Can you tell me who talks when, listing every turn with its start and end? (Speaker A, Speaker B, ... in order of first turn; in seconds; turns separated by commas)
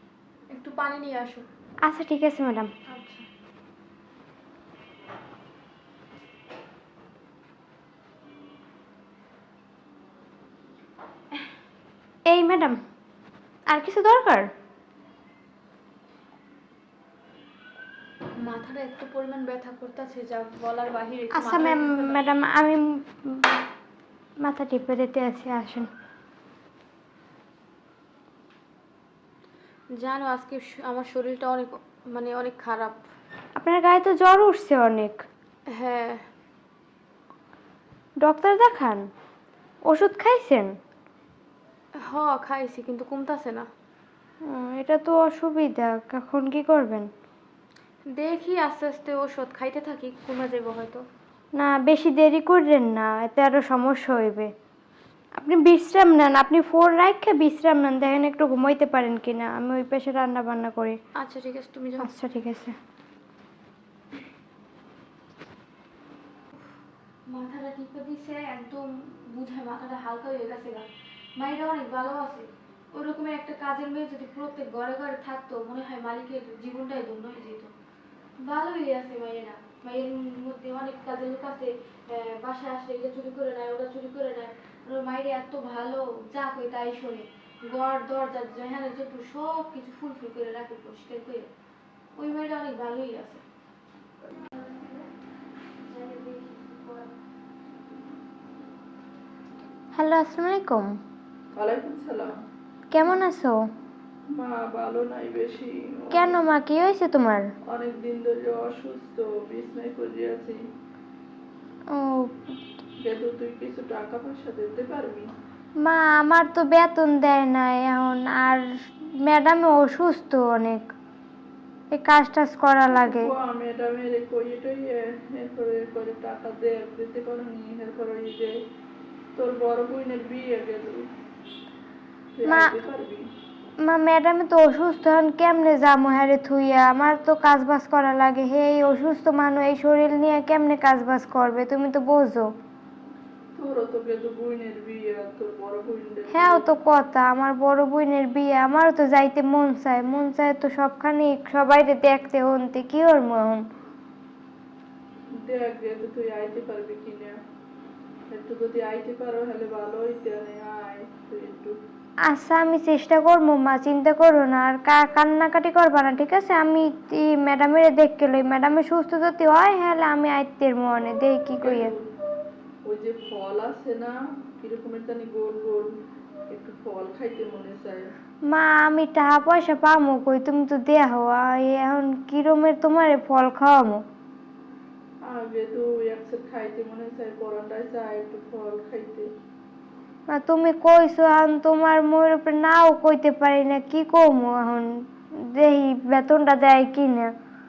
Speaker A: 0.5-1.4, Speaker B: 1.8-2.7, Speaker A: 2.9-3.3, Speaker B: 12.3-12.8, Speaker B: 13.7-14.5, Speaker A: 18.4-22.2, Speaker B: 21.3-23.6, Speaker B: 24.4-25.9, Speaker A: 29.9-33.0, Speaker B: 33.5-35.2, Speaker A: 35.7-36.2, Speaker B: 38.2-39.1, Speaker B: 39.9-40.7, Speaker A: 42.0-43.7, Speaker B: 44.4-47.1, Speaker A: 48.1-51.0, Speaker B: 51.5-54.5, Speaker B: 55.4-61.0, Speaker A: 61.2-62.1, Speaker B: 62.0-62.7, Speaker A: 67.3-70.8, Speaker A: 71.4-77.7, Speaker A: 78.4-91.5, Speaker A: 92.2-93.4, Speaker A: 94.3-95.0, Speaker A: 95.8-97.1, Speaker B: 100.0-100.9, Speaker C: 101.5-102.3, Speaker B: 102.9-103.5, Speaker C: 104.3-106.4, Speaker B: 106.1-107.5, Speaker C: 107.7-110.6, Speaker B: 111.9-112.5, Speaker C: 113.0-115.3, Speaker B: 115.8-120.9, Speaker B: 121.9-123.3, Speaker C: 122.9-128.5, Speaker C: 129.3-131.1, Speaker C: 132.3-133.2, Speaker B: 132.4-132.7, Speaker B: 133.8-142.5, Speaker C: 143.6-146.6, Speaker B: 146.3-153.6, Speaker C: 155.4-157.3, Speaker C: 158.3-161.8, Speaker B: 162.3-171.9, Speaker C: 171.6-172.0, Speaker C: 172.8-175.9, Speaker C: 176.5-178.0, Speaker B: 178.5-184.0, Speaker C: 185.2-189.2, Speaker B: 190.3-194.9, Speaker B: 195.5-197.3